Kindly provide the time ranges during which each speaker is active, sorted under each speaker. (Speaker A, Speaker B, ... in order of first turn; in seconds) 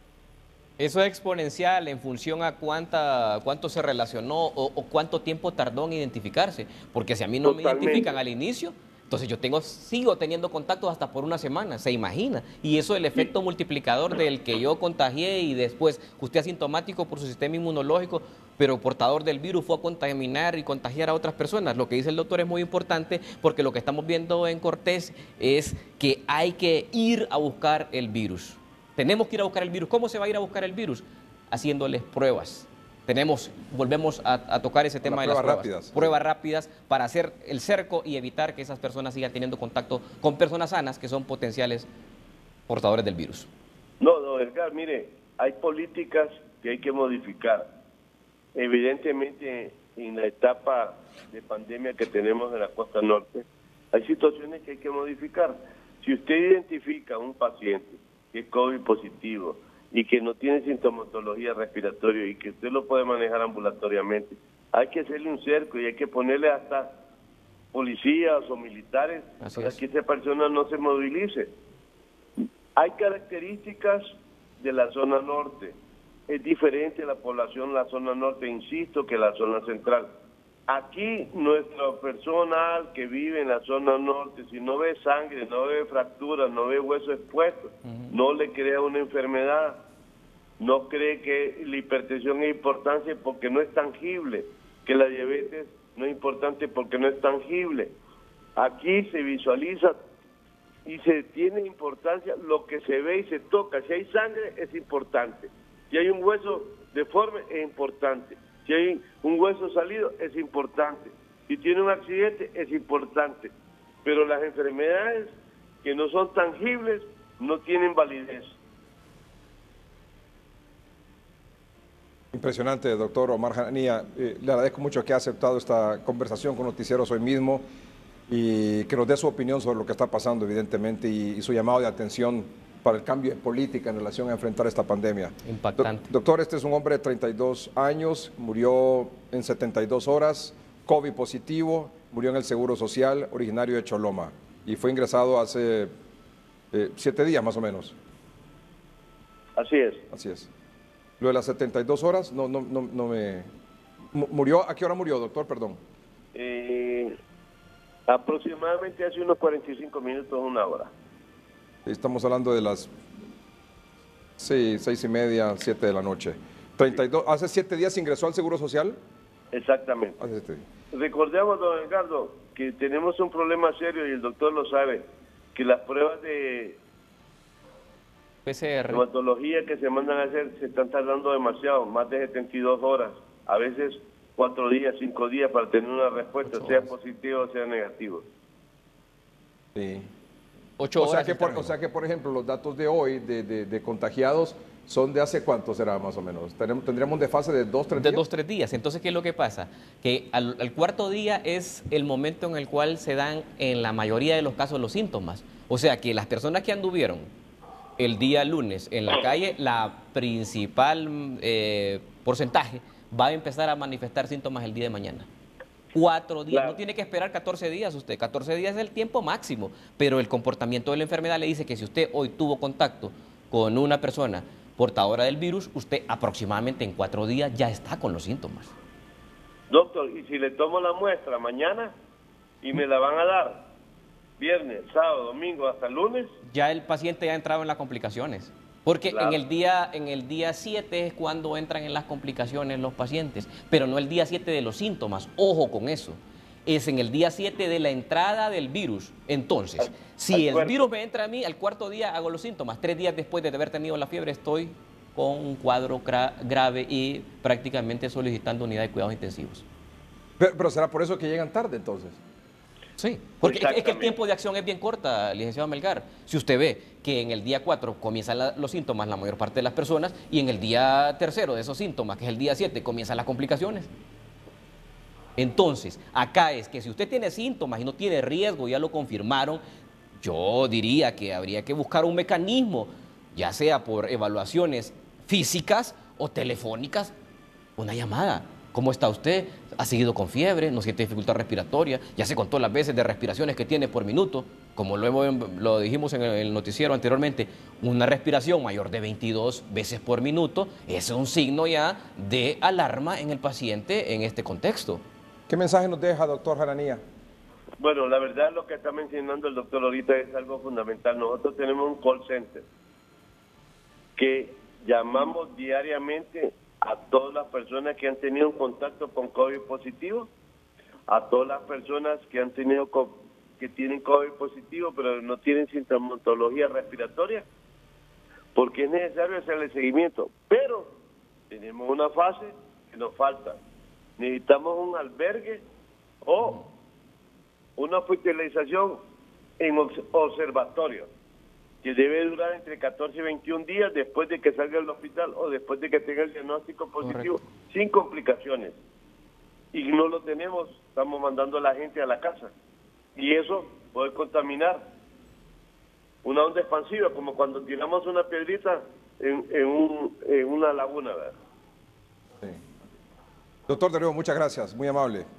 Speaker A: 0.8-41.9, 42.7-43.5, 69.4-69.8, 135.4-136.1, 178.5-179.0, 186.4-186.9, 190.8-191.7, 197.9-207.3, 208.0-215.3, 215.9-228.7, 236.5-259.6, 263.0-273.9, 275.4-279.6, 280.2-287.1, 287.8-305.0, 347.0-347.3
Speaker B: 7.4-8.2, 44.0-47.7, 48.5-67.0, 67.7-71.5, 72.8-74.1, 74.6-75.8, 76.3-80.1, 80.7-89.8, 90.6-97.9, 98.6-100.0, 100.8-113.5, 114.0-115.3, 115.8-118.6, 149.6-150.0, 156.3-157.1, 158.1-160.9, 169.5-170.2, 170.9-176.8, 178.9-188.2, 216.5-216.8, 229.7-231.9, 232.6-233.7, 234.4-236.3, 239.1-239.4, 249.8-250.8, 263.4-264.1, 307.8-312.6, 314.1-320.3, 321.1-327.5, 328.5-330.9, 331.5-333.6, 334.2-335.6, 336.2-336.6, 337.8-339.0, 339.6-341.1, 341.8-348.8, 349.7-352.5, 353.1-354.8, 356.2-361.3
Speaker C: 35.0-36.2, 122.3-127.6, 128.3-145.9, 146.7-148.0, 150.1-150.5, 151.2-153.5, 154.1-155.8, 161.9-162.9, 164.4-169.0, 170.2-170.6, 189.8-190.1, 191.0-198.2, 260.4-262.2, 305.5-307.0, 363.7-365.2